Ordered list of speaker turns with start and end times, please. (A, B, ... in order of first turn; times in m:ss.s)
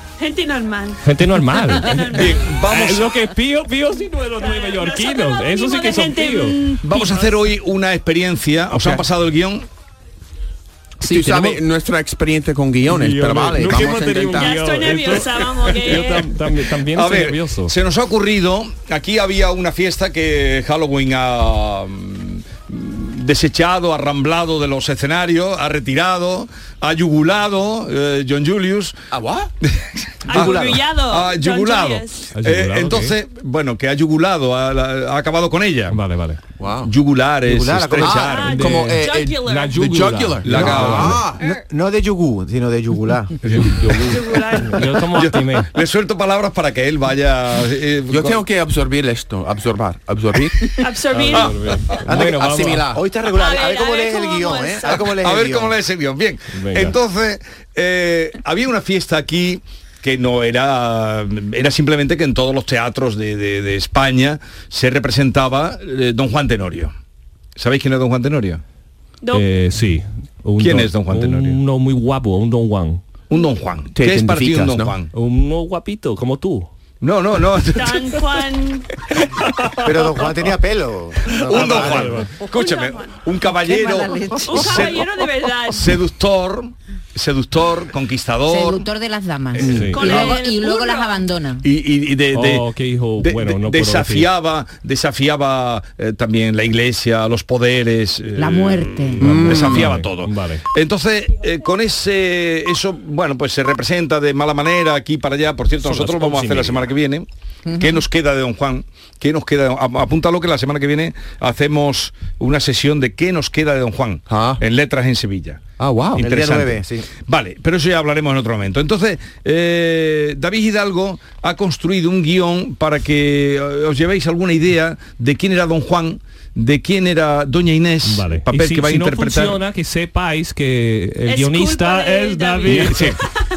0:00.2-0:01.0 A
0:01.0-0:06.6 B
0:01.7-0:02.4 A
0:02.1-0:03.1 C
0:04.4-0:07.3 A
0:06.8-0:09.6 C
0:08.8-0:09.0 D
0:11.0-0:11.6 B
0:11.0-0:14.5 D
0:12.9-0:17.7 B
0:14.4-0:16.3 A
0:15.8-0:16.2 C
0:16.8-0:29.0 C
0:29.1-0:29.5 D
0:29.6-0:36.0 C
0:30.2-0:32.3 A
0:32.3-0:33.1 B
0:35.9-0:36.4 B
0:36.6-0:36.9 D
0:36.8-0:38.6 C
0:37.4-0:38.2 E
0:38.0-0:41.4 D
0:38.1-0:39.8 A
0:38.4-0:41.2 B
0:40.4-0:41.2 C
0:41.4-0:43.7 E
0:43.4-0:44.2 C
0:44.0-0:45.0 A
0:44.6-0:45.7 B
0:45.1-0:48.4 C
0:48.1-0:50.7 D
0:50.8-0:51.6 A
0:51.1-0:52.9 B
0:51.3-0:52.0 C
0:52.1-0:55.7 E
0:52.1-0:53.0 D
0:53.3-0:55.0 A
0:55.0-1:06.9 C
0:56.5-0:57.0 B
1:07.6-1:08.6 C
1:09.3-1:13.0 B
1:10.6-1:11.6 C
1:13.3-1:15.1 C
1:13.9-1:15.0 D
1:15.1-1:16.7 B
1:17.0-1:18.2 C
1:17.7-1:18.9 A
1:19.4-1:19.8 B
1:19.8-1:22.2 E
1:21.3-1:22.3 B
1:21.4-1:25.1 C
1:22.4-1:23.2 A
1:23.6-1:24.7 F
1:24.4-1:26.0 A
1:25.7-1:28.9 C
1:28.5-1:31.6 F
1:29.5-1:30.4 C
1:29.6-1:30.0 B
1:29.9-1:31.2 A
1:31.6-1:32.7 C
1:32.3-1:34.3 B
1:33.2-1:55.6 C
1:38.4-1:39.4 F
1:39.2-1:39.9 D
1:39.5-1:40.6 B
1:45.8-1:46.9 B
1:47.7-1:48.0 F
1:54.3-1:54.6 D
1:55.8-1:56.3 D
1:56.2-2:09.6 C
1:56.2-1:57.1 E
2:08.0-2:13.2 B
2:11.3-2:13.4 A
2:12.7-2:13.2 C